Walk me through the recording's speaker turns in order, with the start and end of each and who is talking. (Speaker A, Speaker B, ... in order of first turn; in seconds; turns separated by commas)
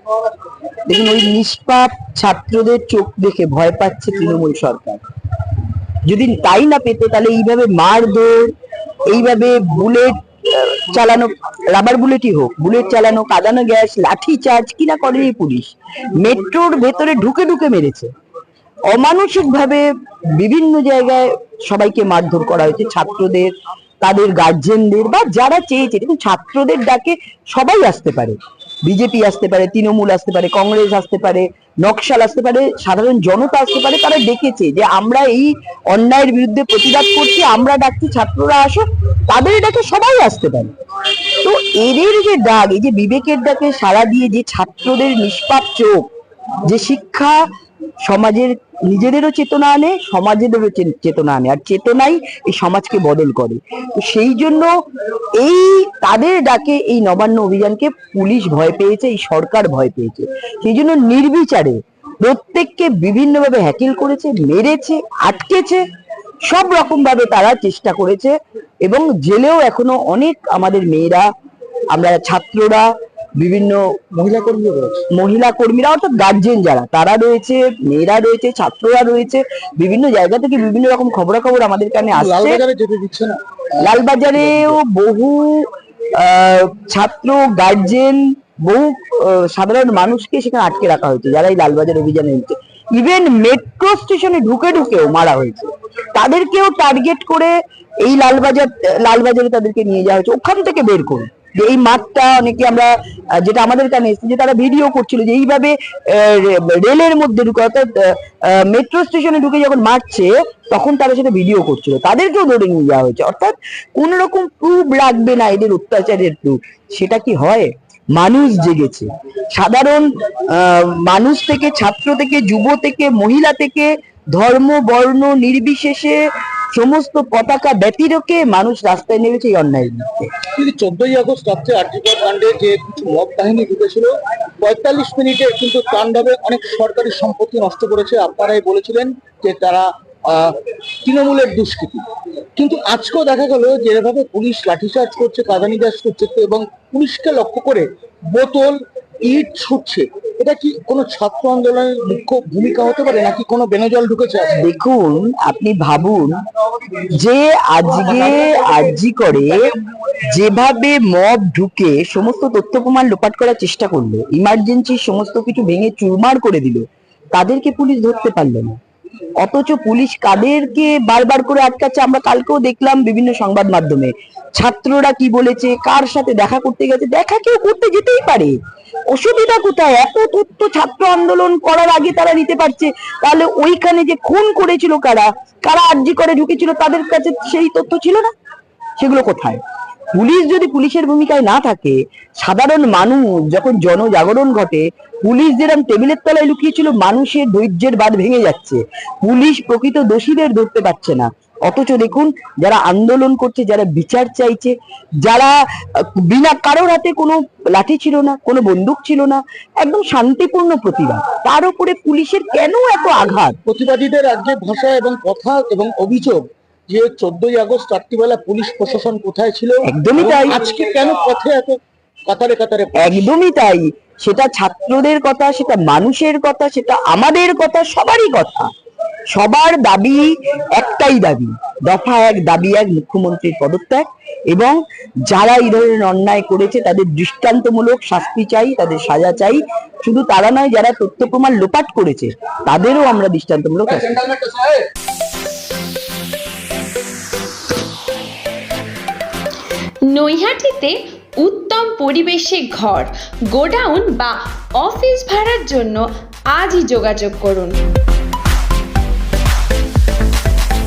Speaker A: 0.9-5.0, Speaker A: 6.0-8.5, Speaker A: 9.1-18.1, Speaker A: 18.9-40.7, Speaker A: 41.4-46.1, Speaker A: 46.6-47.4, Speaker A: 48.0-54.8, Speaker A: 55.4-65.8, Speaker A: 66.5-71.3, Speaker A: 71.9-73.8, Speaker B: 74.2-75.0, Speaker A: 75.1-82.6, Speaker B: 82.2-84.8, Speaker A: 83.8-126.2, Speaker A: 126.7-130.3, Speaker B: 130.5-142.0, Speaker B: 142.6-154.6, Speaker A: 154.6-156.3, Speaker A: 157.0-159.7, Speaker A: 160.2-168.8, Speaker A: 169.4-178.6, Speaker A: 179.1-188.3, Speaker A: 189.0-189.6, Speaker A: 190.1-213.6, Speaker B: 213.7-223.3, Speaker A: 219.9-220.6, Speaker A: 223.0-228.7, Speaker A: 229.3-244.2, Speaker B: 244.0-244.8, Speaker C: 250.1-257.8